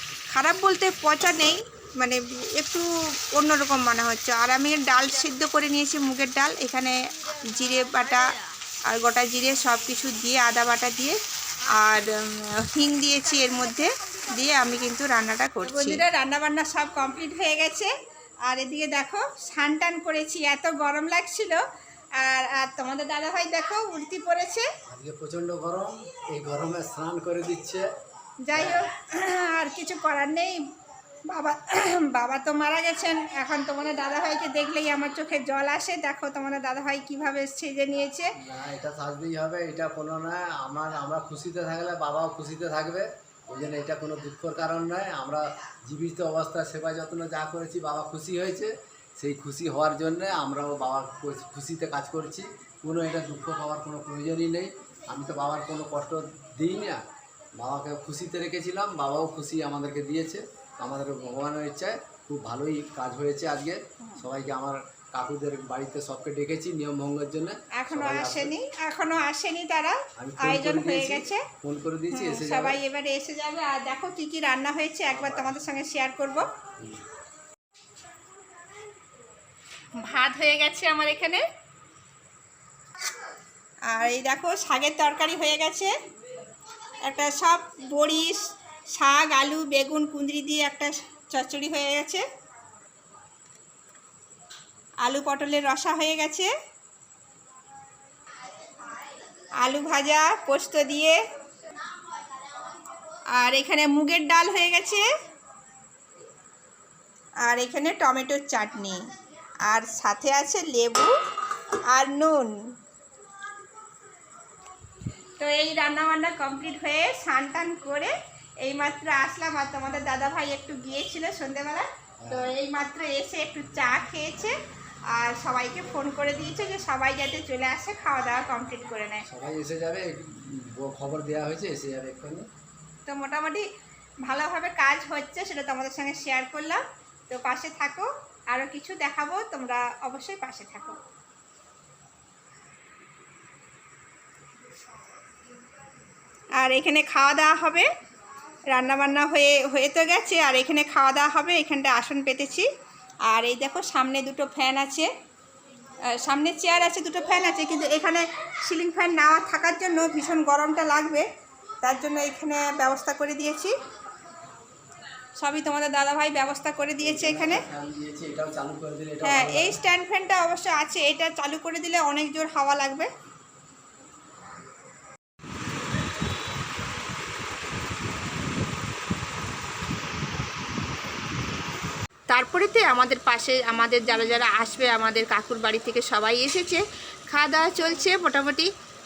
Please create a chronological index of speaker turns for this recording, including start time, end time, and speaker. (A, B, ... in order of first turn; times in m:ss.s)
0:00.3-0:08.3 A
0:08.9-0:11.2 A
0:11.7-0:17.9 A
0:18.4-0:21.6 A
0:22.2-0:24.7 A
0:24.9-0:27.9 B
0:28.4-0:30.6 A
0:28.5-0:28.9 B
0:31.3-0:38.3 A
0:38.4-0:57.0 B
0:57.6-1:08.5 B
1:07.8-1:11.5 A
1:10.2-1:12.8 B
1:12.1-1:16.5 A
1:15.1-1:15.5 B
1:20.0-1:21.4 A
1:23.9-1:25.9 A
1:27.0-1:32.2 A
1:35.0-1:36.5 A
1:39.6-1:41.2 A
1:43.3-1:45.0 A
1:47.4-1:49.0 A
1:49.6-1:51.1 A
1:51.9-1:52.6 A
1:55.4-2:04.6 A
2:02.2-2:02.5 B
2:05.1-2:09.2 A
2:09.3-2:12.4 B
2:13.1-2:13.6 A
2:14.2-2:21.0 A
2:26.6-2:27.9 A
2:28.7-2:32.7 A
2:33.3-2:35.1 A
2:36.1-2:41.2 A
2:41.8-2:43.7 A
2:45.4-2:47.6 A
2:47.0-2:49.8 B
2:49.2-2:53.1 A
3:02.3-3:08.7 A